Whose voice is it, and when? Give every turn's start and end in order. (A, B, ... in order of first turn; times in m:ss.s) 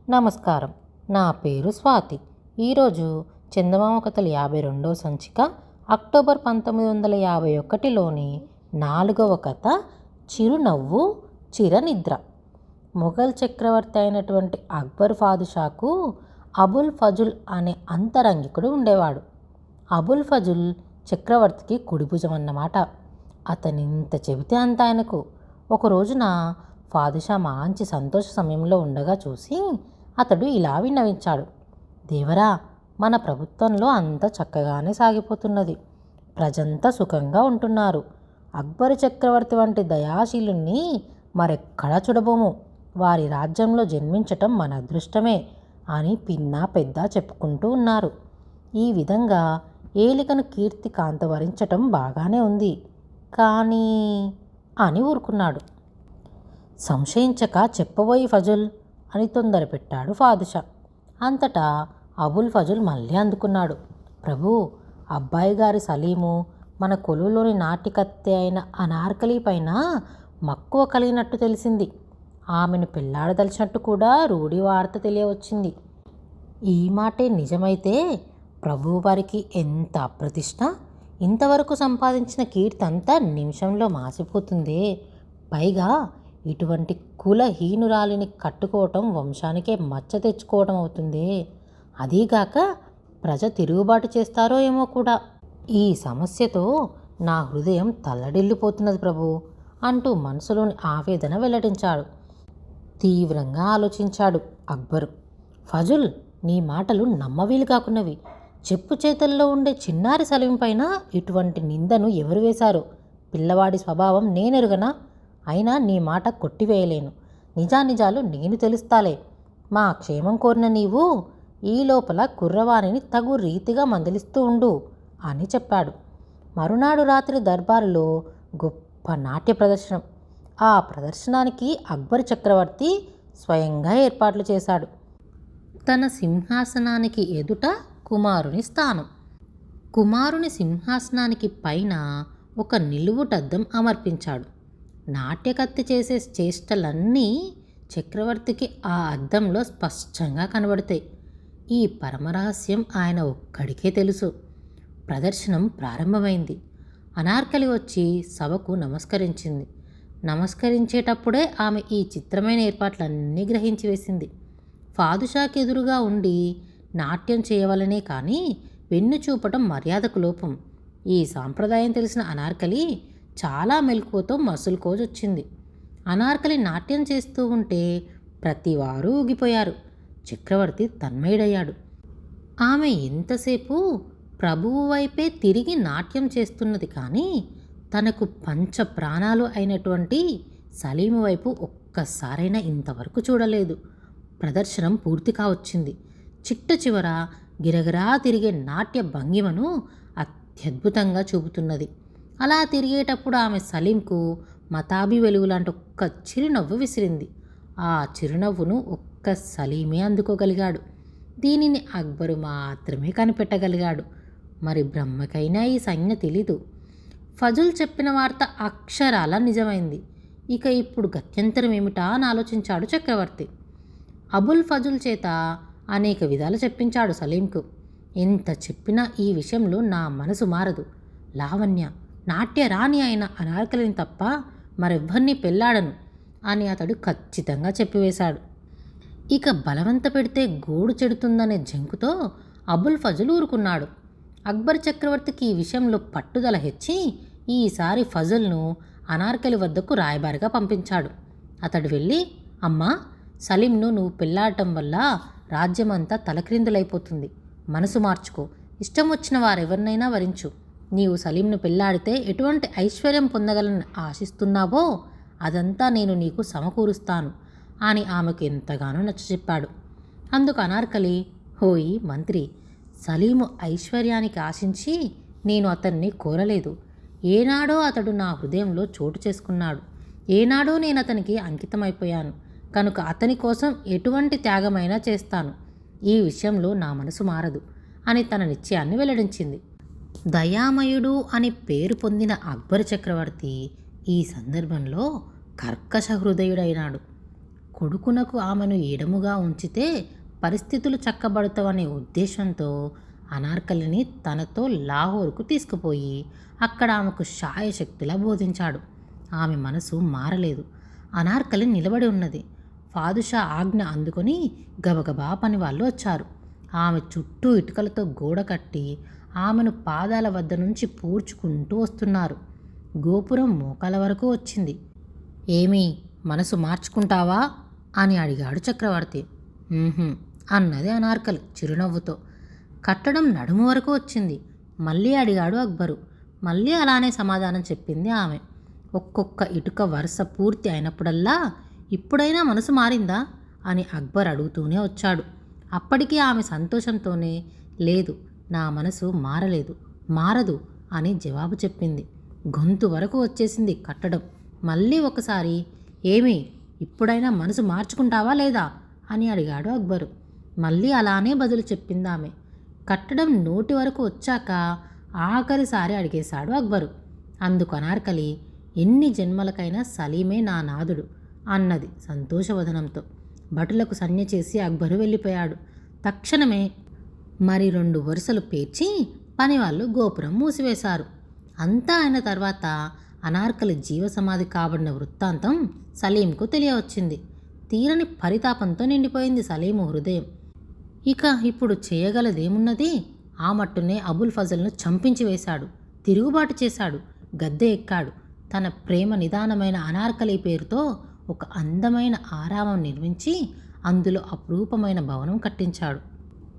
0:00.1-0:09.7 A
0:10.3-0:11.0 A
0:11.6-0:12.2 A
0:13.0-0:15.9 A
0:16.6-0:19.2 A
0:20.0-0:22.8 A
0:23.5-0:25.2 A
0:25.8-0:26.3 A
0:26.9-0:29.6 A
0:30.2-0:31.5 A
0:32.1-0:32.5 A
0:33.0-0:35.8 A
0:36.4-0:38.0 A
0:38.6-0:40.8 A
0:41.4-0:42.5 A
0:43.0-0:45.4 A
0:46.0-0:48.1 A
0:48.8-0:49.4 A
0:50.0-0:52.7 A
0:53.4-0:53.9 A
0:54.8-0:55.6 A
0:56.9-1:00.6 A
1:01.3-1:01.7 A
1:02.2-1:04.6 A
1:05.2-1:09.8 A
1:10.5-1:11.9 A
1:12.6-1:15.7 A
1:16.7-1:18.0 A
1:18.6-1:20.7 A
1:21.3-1:24.8 A
1:25.5-1:25.9 A
1:26.5-1:31.3 A
1:32.0-1:32.6 A
1:33.2-1:35.2 A
1:35.8-1:36.7 A
1:37.3-1:39.3 A
1:39.9-1:42.0 A
1:43.0-1:45.1 A
1:45.7-1:48.2 A
1:48.7-1:54.9 A
1:55.5-1:59.2 A
1:59.8-2:01.0 A
2:01.7-2:04.7 A
2:05.3-2:05.9 A
2:06.6-2:08.1 A
2:08.6-2:10.0 A
2:10.7-2:14.9 A
2:15.9-2:19.1 A
2:20.0-2:22.0 A
2:22.6-2:24.5 A
2:25.2-2:27.3 A
2:28.0-2:31.0 A
2:31.8-2:34.3 A
2:35.1-2:36.6 A
2:37.2-2:39.7 A
2:40.3-2:44.3 A
2:45.0-2:46.4 A
2:47.0-2:48.4 A
2:48.9-2:50.5 A
2:51.2-2:52.8 A
2:53.4-2:55.4 A
2:56.1-2:57.8 A
2:58.5-2:59.7 A
3:00.3-3:01.8 A
3:02.7-3:03.8 A
3:04.4-3:07.3 A
3:08.0-3:10.2 A
3:10.8-3:13.8 A
3:14.4-3:15.9 A
3:16.5-3:19.7 A
3:20.2-3:21.9 A
3:22.4-3:24.2 A
3:24.8-3:27.3 A
3:27.9-3:30.8 A
3:31.4-3:34.0 A
3:34.7-3:36.6 A
3:37.4-3:40.0 A
3:40.6-3:43.5 A
3:44.4-3:45.3 A
3:46.0-3:47.6 A
3:48.2-3:50.8 A
3:51.4-3:54.3 A
3:54.8-3:55.9 A
3:56.5-3:58.4 A
3:59.4-4:02.1 A
4:02.7-4:03.9 A
4:04.5-4:07.0 A
4:07.5-4:11.1 A
4:11.7-4:12.9 A
4:13.5-4:15.0 A
4:15.6-4:24.8 A
4:25.5-4:27.3 A
4:27.9-4:29.7 A
4:30.4-4:32.4 A
4:33.1-4:35.0 A
4:35.5-4:36.7 A
4:37.3-4:39.8 A
4:40.4-4:45.5 A
4:46.1-4:49.6 A
4:50.4-4:53.6 A
4:54.1-4:55.1 A
4:55.6-4:57.0 A
4:57.8-4:59.9 A
5:00.4-5:02.7 A
5:03.4-5:08.8 A
5:09.4-5:10.6 A
5:11.2-5:12.4 A
5:12.9-5:16.3 A
5:16.8-5:18.9 A
5:19.4-5:22.4 A
5:23.1-5:24.8 A
5:25.6-5:27.4 A
5:28.0-5:29.2 A
5:29.8-5:32.2 A
5:32.9-5:38.4 A
5:39.0-5:41.4 A
5:42.0-5:45.2 A
5:45.8-5:47.3 A
5:47.9-5:52.0 A
5:52.6-5:55.6 A
5:56.1-6:00.1 A
6:00.6-6:02.3 A
6:02.9-6:04.6 A
6:05.3-6:06.9 A
6:07.5-6:08.3 A
6:08.8-6:11.0 A
6:11.6-6:13.0 A
6:13.6-6:16.7 A
6:17.5-6:21.1 A
6:21.6-6:22.7 A
6:23.3-6:27.2 A
6:27.7-6:30.2 A
6:31.1-6:32.9 A
6:33.5-6:43.4 A
6:43.9-6:46.0 A